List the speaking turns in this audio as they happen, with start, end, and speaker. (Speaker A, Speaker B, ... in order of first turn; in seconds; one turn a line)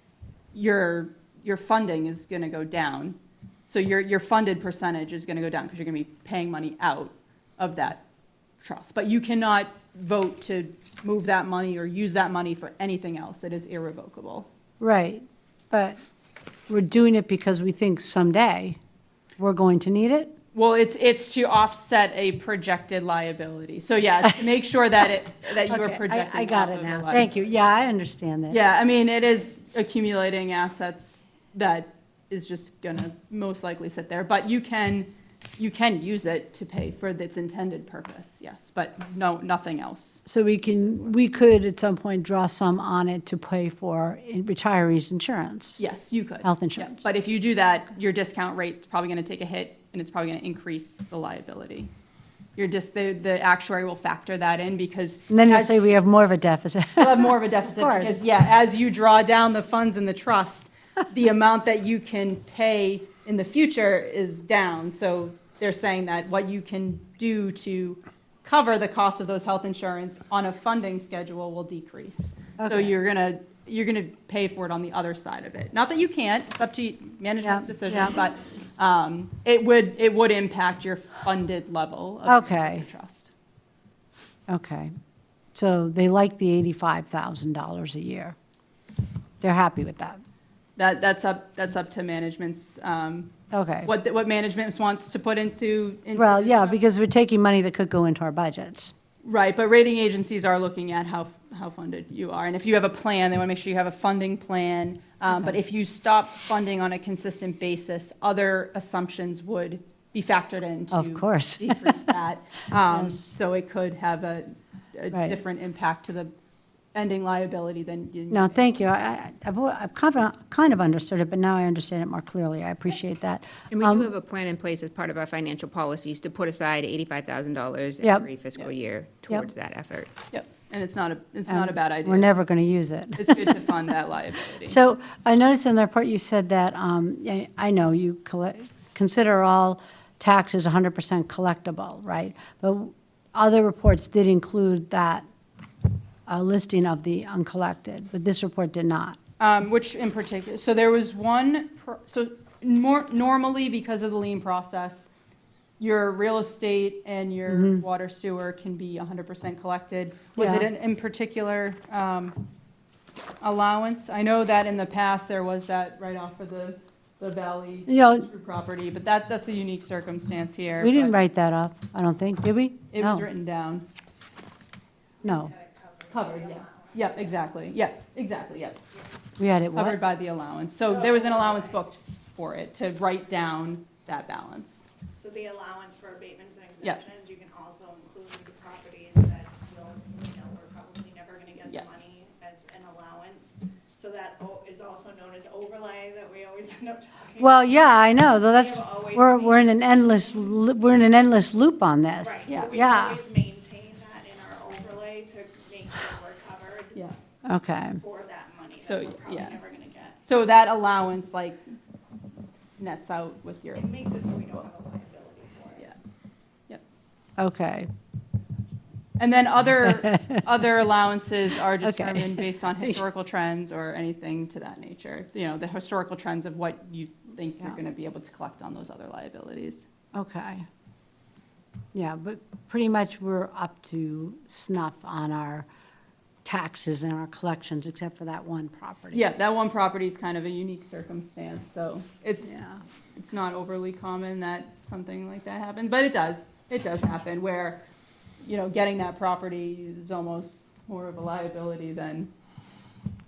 Speaker A: 0.5-3.2
Speaker A: 3.7-8.0
Speaker A: 8.6-14.5
Speaker B: 14.8-16.0
Speaker B: 16.7-18.8
Speaker B: 19.4-20.4
Speaker A: 20.5-27.3
Speaker B: 25.6-28.6
Speaker A: 28.5-40.2
Speaker B: 40.3-45.8
Speaker A: 45.8-51.9
Speaker B: 46.4-47.0
Speaker A: 52.6-55.9
Speaker B: 55.3-58.2
Speaker A: 57.0-83.3
Speaker B: 72.6-72.9
Speaker B: 77.4-78.1
Speaker B: 82.3-82.8
Speaker B: 84.5-84.9
Speaker B: 85.5-88.3
Speaker B: 89.4-90.2
Speaker A: 90.8-96.8
Speaker B: 93.5-93.9
Speaker B: 96.2-98.9
Speaker A: 99.2-116.3
Speaker B: 110.9-112.1
Speaker B: 112.9-113.2
Speaker B: 115.1-115.4
Speaker A: 116.9-118.8
Speaker B: 118.3-124.1
Speaker C: 123.7-130.1
Speaker B: 128.0-128.3
Speaker A: 130.3-132.3
Speaker B: 131.5-133.7
Speaker A: 133.2-134.8
Speaker B: 134.7-145.2
Speaker B: 146.3-149.2
Speaker A: 149.4-155.1
Speaker A: 155.8-162.4
Speaker B: 157.5-157.8
Speaker B: 160.4-160.7
Speaker A: 163.4-171.2
Speaker B: 167.9-168.3
Speaker B: 170.8-173.3
Speaker A: 172.9-173.8
Speaker D: 175.2-177.4
Speaker B: 175.2-175.5
Speaker A: 176.1-178.8
Speaker B: 179.4-180.0
Speaker A: 179.8-184.9
Speaker D: 180.9-181.8
Speaker D: 185.1-200.7
Speaker B: 197.4-203.2
Speaker D: 202.2-207.1
Speaker B: 207.5-208.0
Speaker D: 208.0-210.3
Speaker A: 208.8-209.6
Speaker A: 210.3-211.6
Speaker A: 212.8-213.9
Speaker D: 213.7-216.0
Speaker B: 217.4-217.9
Speaker A: 219.2-229.9
Speaker B: 221.8-223.0
Speaker B: 230.1-230.7
Speaker B: 231.9-235.7
Speaker B: 236.4-239.2
Speaker A: 239.1-247.8
Speaker B: 242.4-242.8
Speaker A: 248.4-252.3